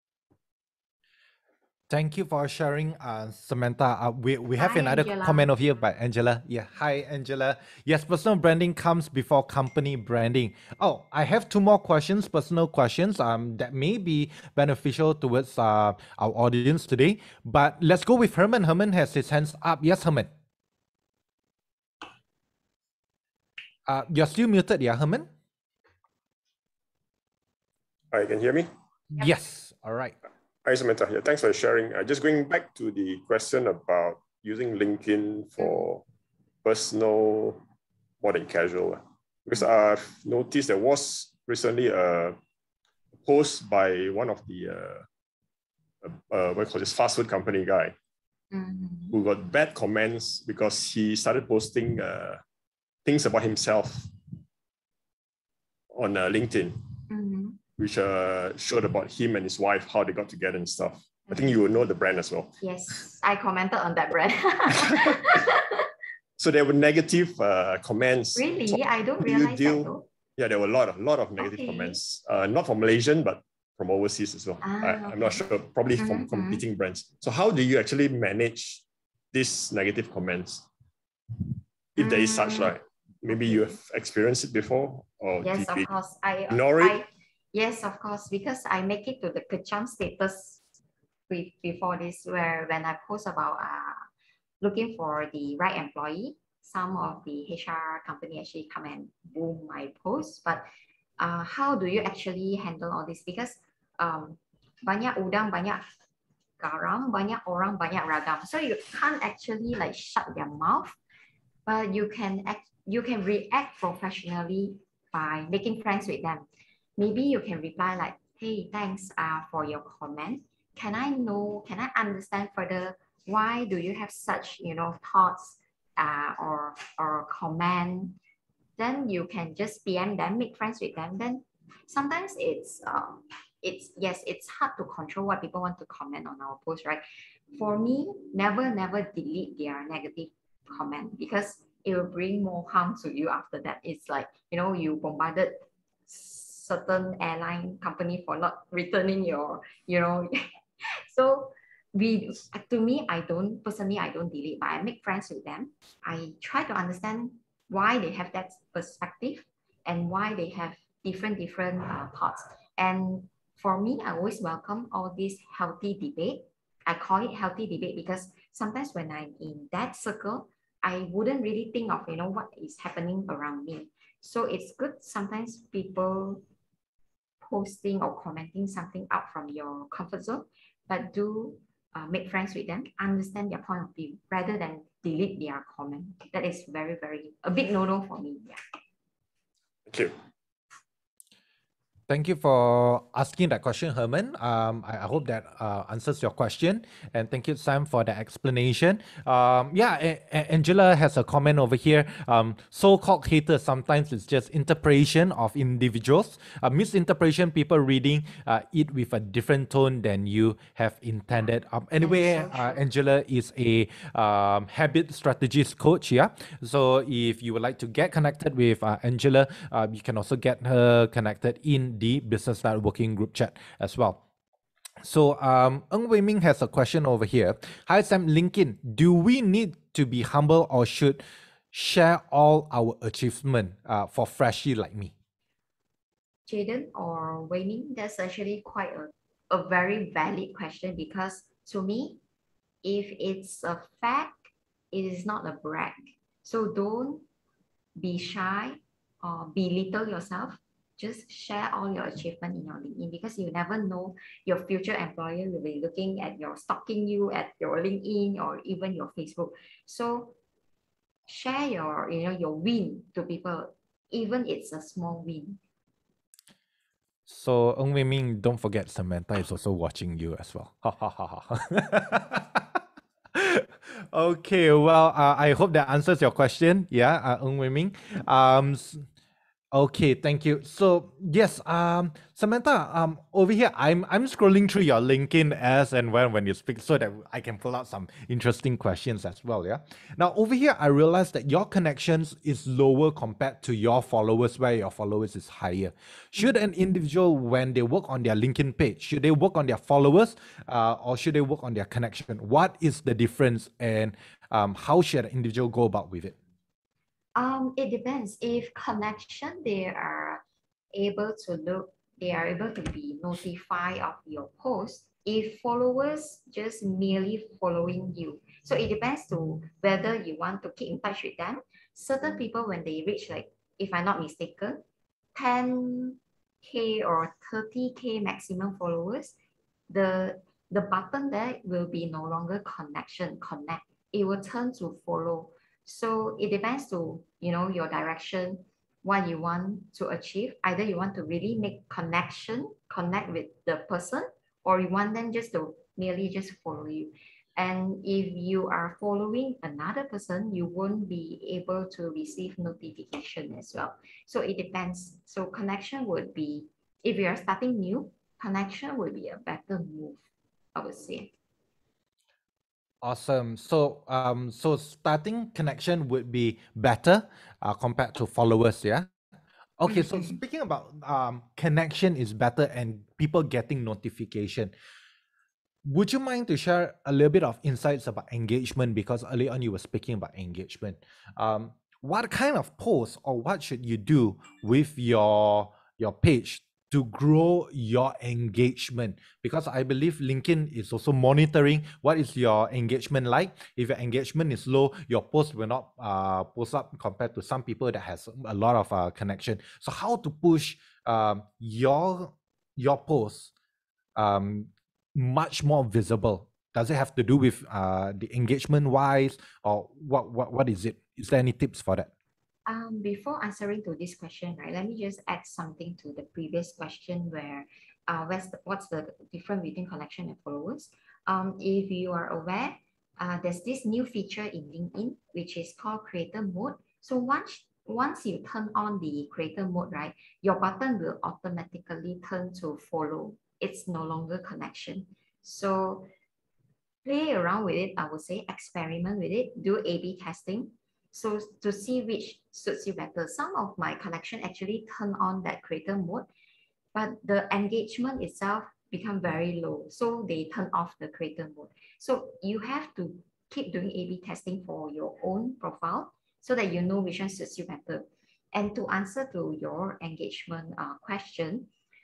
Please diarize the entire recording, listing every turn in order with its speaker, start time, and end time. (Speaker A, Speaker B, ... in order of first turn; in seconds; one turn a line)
Speaker A: 1.9-20.3
Speaker B: 4.6-5.5
Speaker A: 23.9-25.3
Speaker C: 28.1-28.7
Speaker A: 29.1-30.1
Speaker C: 30.6-36.0
Speaker B: 35.6-35.9
Speaker C: 36.6-37.6
Speaker C: 38.2-42.4
Speaker C: 43.2-45.1
Speaker C: 46.0-48.0
Speaker B: 48.5-49.2
Speaker C: 49.1-52.4
Speaker C: 53.0-54.1
Speaker C: 55.9-56.8
Speaker B: 57.1-57.6
Speaker C: 57.8-62.6
Speaker B: 61.3-61.6
Speaker B: 62.6-65.9
Speaker C: 64.9-65.1
Speaker C: 66.4-80.7
Speaker B: 68.4-70.1
Speaker B: 71.4-72.0
Speaker B: 74.6-76.6
Speaker C: 82.0-85.9
Speaker B: 82.0-83.8
Speaker B: 85.4-90.7
Speaker C: 86.5-87.0
Speaker B: 91.3-94.0
Speaker B: 94.6-100.7
Speaker B: 101.2-105.8
Speaker B: 106.6-111.0
Speaker B: 111.7-116.5
Speaker B: 117.0-128.2
Speaker B: 128.8-176.4
Speaker B: 177.4-188.6
Speaker C: 189.9-190.1
Speaker A: 192.1-224.2
Speaker B: 211.3-212.8
Speaker A: 225.0-235.1
Speaker B: 236.5-242.2
Speaker B: 242.8-247.3
Speaker B: 248.0-260.4
Speaker B: 261.3-265.6
Speaker A: 267.3-272.8
Speaker A: 273.4-279.1
Speaker A: 279.7-306.4
Speaker B: 307.4-310.4
Speaker B: 310.9-324.8
Speaker B: 325.4-329.3
Speaker B: 329.9-360.2
Speaker B: 360.8-361.3
Speaker A: 363.0-369.1
Speaker A: 369.8-374.7
Speaker B: 369.9-370.4
Speaker A: 375.9-403.5
Speaker A: 404.2-412.1
Speaker B: 412.7-436.1
Speaker B: 437.1-446.3
Speaker B: 446.9-461.7